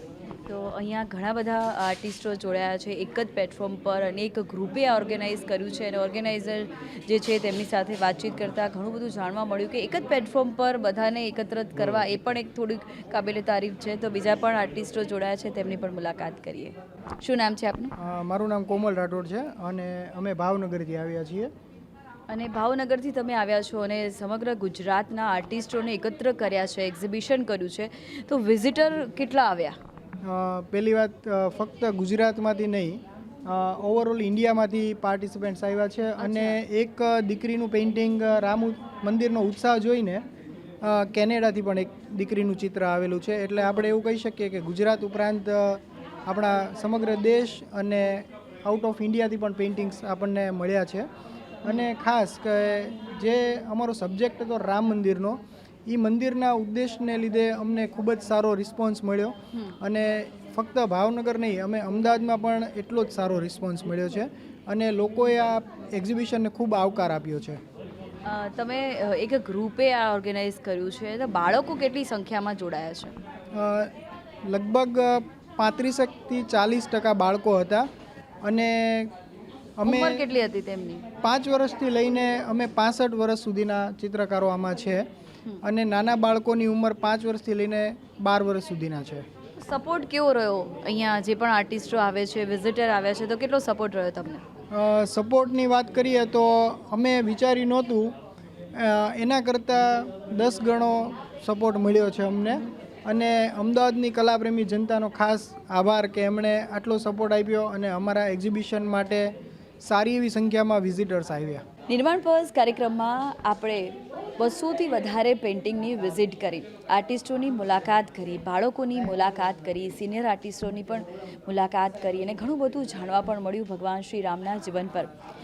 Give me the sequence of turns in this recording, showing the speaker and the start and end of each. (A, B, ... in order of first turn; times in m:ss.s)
0:00.5-0:17.9 A
0:18.0-0:21.5 B
0:22.3-0:29.8 A
0:30.2-0:40.2 B
0:36.2-0:36.5 A
0:40.8-0:51.1 B
0:51.6-1:07.6 B
1:08.3-1:13.1 A
1:13.6-1:13.9 B
1:14.5-1:17.9 B
1:18.4-1:19.1 B
1:19.8-1:20.2 B
1:19.8-1:21.0 A
1:21.2-1:25.0 B
1:25.6-1:29.3 B
1:29.6-1:34.4 A
1:34.7-1:38.1 B
1:38.8-1:51.6 B
1:51.9-2:05.1 A